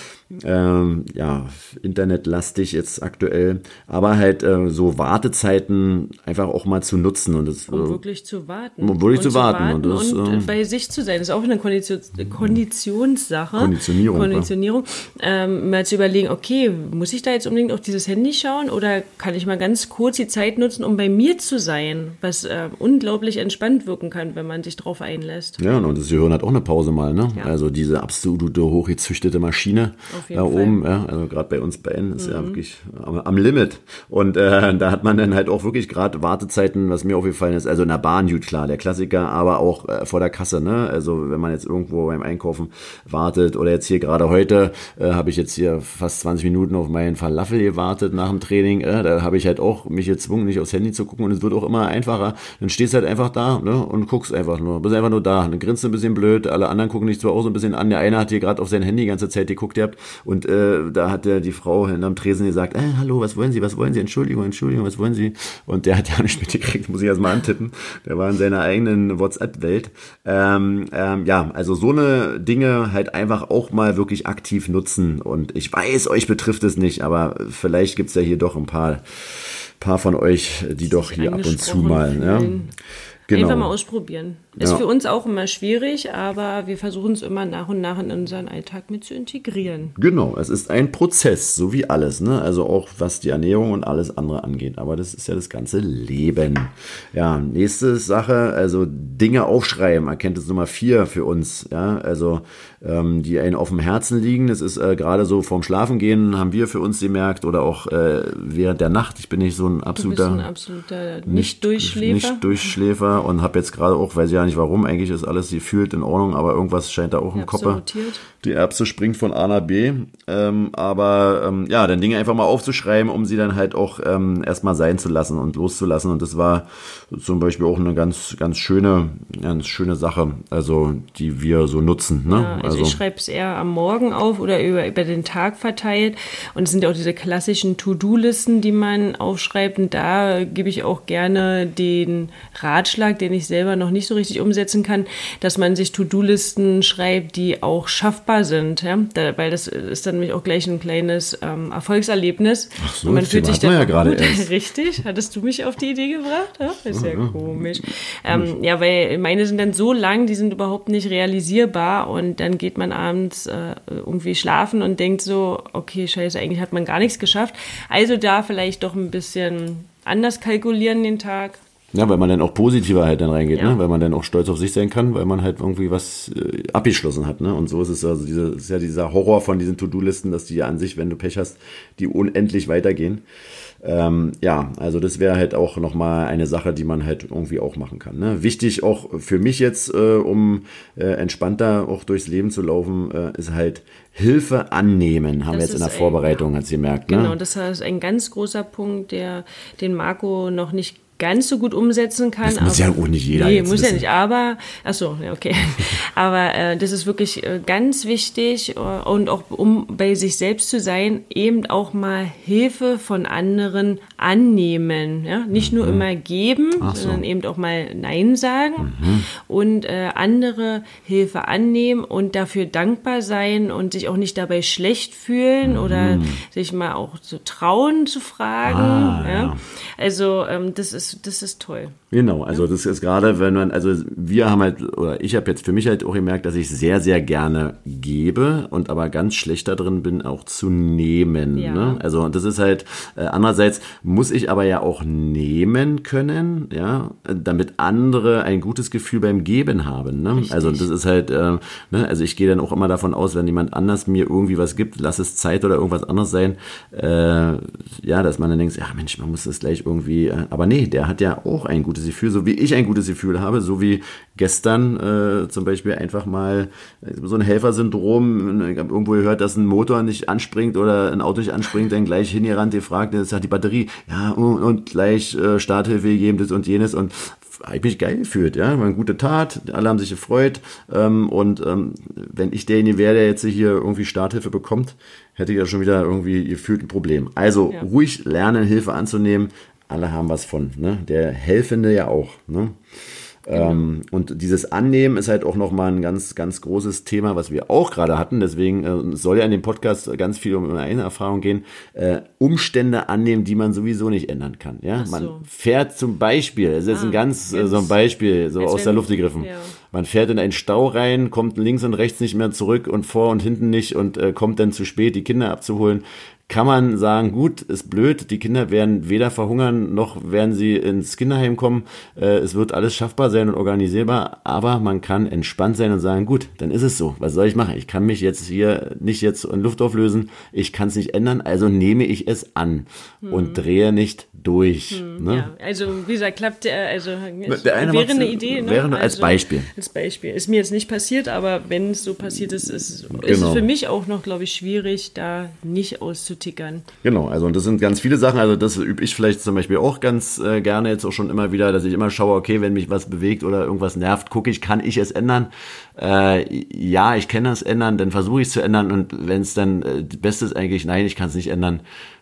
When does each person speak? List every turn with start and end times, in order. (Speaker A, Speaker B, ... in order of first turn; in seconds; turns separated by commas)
Speaker A: 0.3-8.0, Speaker B: 7.7-25.6, Speaker A: 8.8-10.5, Speaker A: 13.6-14.5, Speaker A: 25.6-82.6, Speaker B: 30.1-30.8, Speaker B: 32.2-32.6, Speaker B: 80.9-82.8, Speaker A: 83.3-83.7, Speaker B: 83.3-89.9, Speaker A: 90.0-110.5, Speaker B: 110.0-112.8, Speaker A: 111.3-133.0, Speaker B: 117.3-118.2, Speaker B: 132.3-171.6, Speaker A: 152.8-154.5, Speaker A: 156.9-157.7, Speaker A: 171.9-183.2, Speaker A: 183.8-197.3, Speaker B: 195.5-196.4, Speaker B: 197.1-232.0, Speaker A: 202.4-204.0, Speaker A: 215.5-216.0, Speaker A: 216.8-217.2, Speaker A: 218.8-219.3, Speaker A: 225.6-226.4, Speaker A: 228.7-229.6, Speaker A: 232.1-292.8, Speaker B: 241.6-242.0, Speaker B: 250.3-250.9, Speaker A: 293.5-335.5, Speaker B: 293.5-293.9, Speaker B: 305.0-305.5, Speaker B: 306.9-307.9, Speaker B: 308.6-309.8, Speaker B: 333.2-333.6, Speaker B: 334.9-346.9, Speaker A: 337.5-339.7, Speaker A: 343.1-343.7, Speaker A: 347.0-361.8